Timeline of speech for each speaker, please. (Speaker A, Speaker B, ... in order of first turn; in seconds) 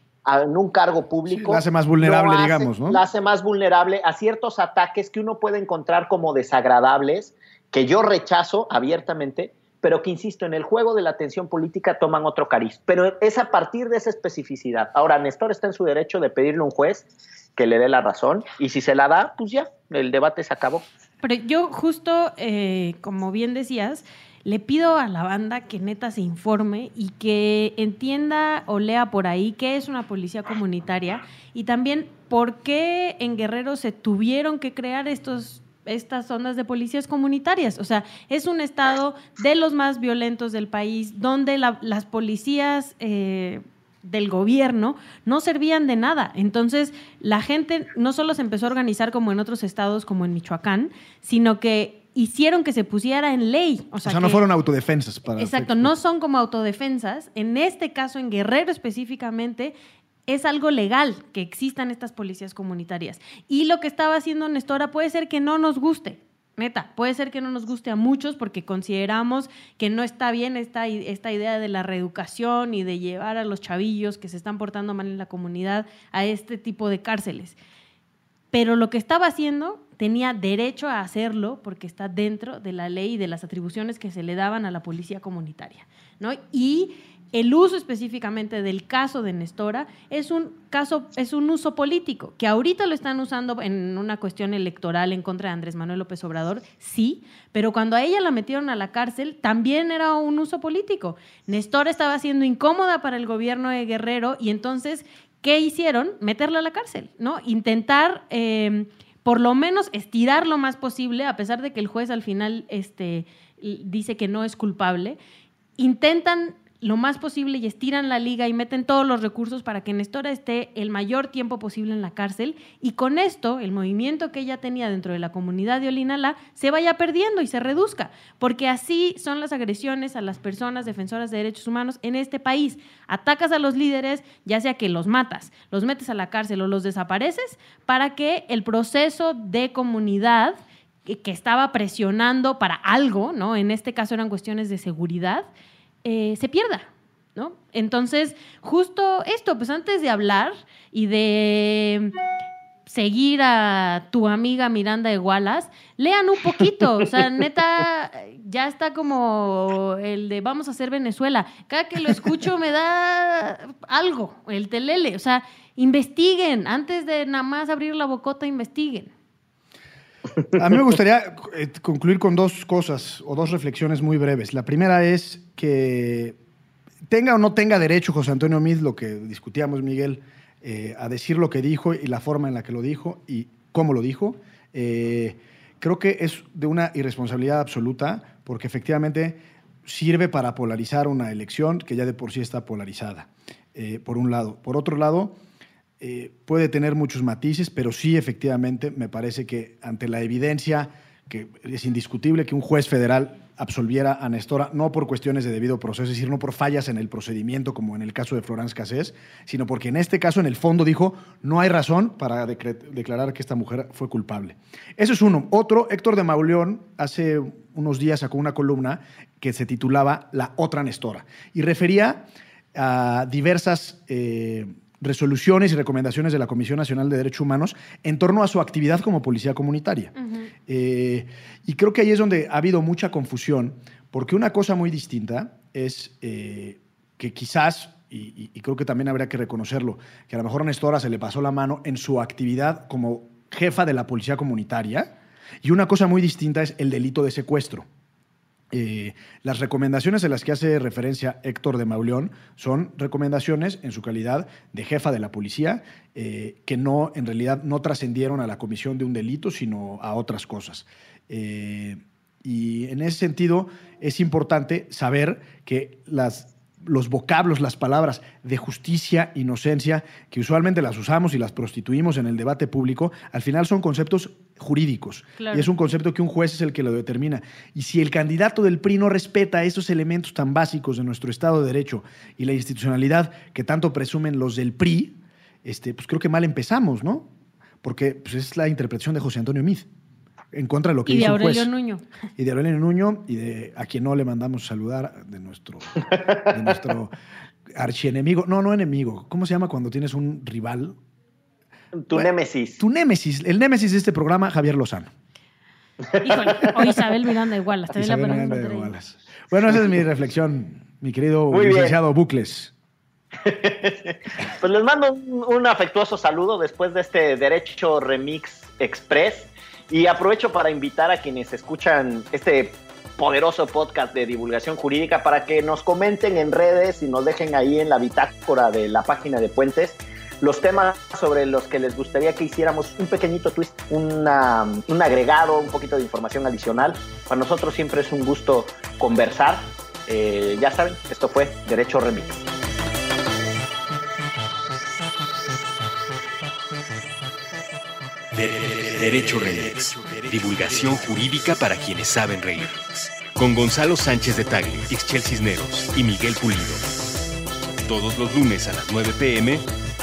Speaker A: 0.2-20.9, 301.9-302.8, 311.5-312.0, 313.4-342.4
Speaker B: 1.3-3.0, 54.0-55.9, 170.5-176.4, 177.1-195.4, 196.0-230.1, 230.7-247.8, 248.7-287.3, 287.8-289.9, 290.5-291.7, 292.4-297.1, 297.7-300.9, 302.1-305.1, 307.9-312.7
Speaker C: 21.2-54.4, 55.4-59.7, 60.3-77.6, 78.5-115.2, 115.8-145.5, 146.0-152.1, 152.9-169.1, 230.2-230.5, 275.4-275.7, 291.1-292.0, 306.2-308.9
Speaker D: 348.3-356.9, 357.8-359.6